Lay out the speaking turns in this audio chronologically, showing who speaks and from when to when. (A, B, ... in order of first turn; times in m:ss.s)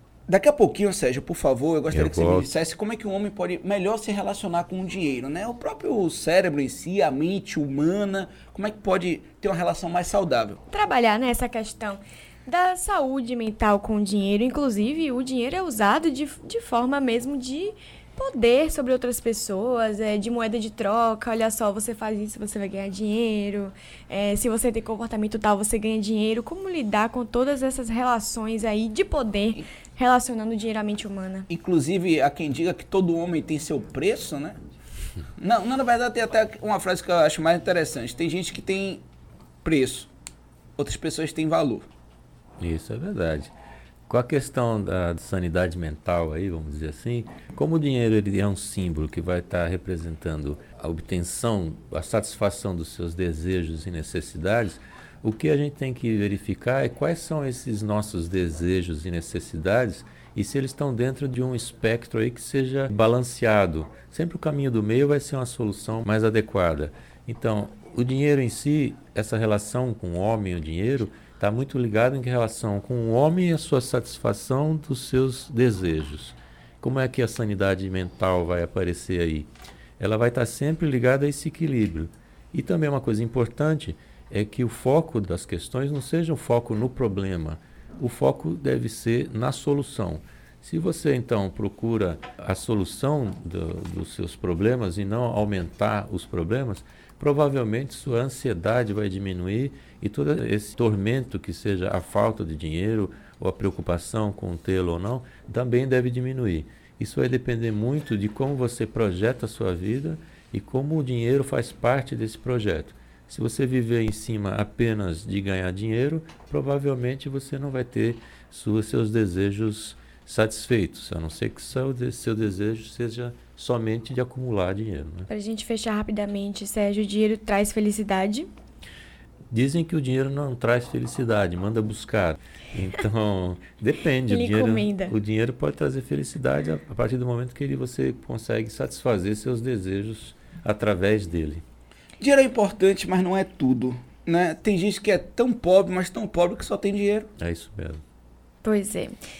0:00.3-0:10.6 A
0:01.9-0:02.5 B
0:10.7-0:31.5 C
0:31.5-0:34.6 A
0:35.4-0:39.0 A
0:39.6-0:40.1 A
0:40.8-0:41.8 A
0:42.6-0:43.5 B
0:44.1-2:05.3 B
2:05.3-2:08.5 C
2:09.5-2:21.6 B
2:14.3-2:15.1 C
2:22.2-2:27.3 A
2:27.4-2:28.0 B
2:28.6-2:29.1 C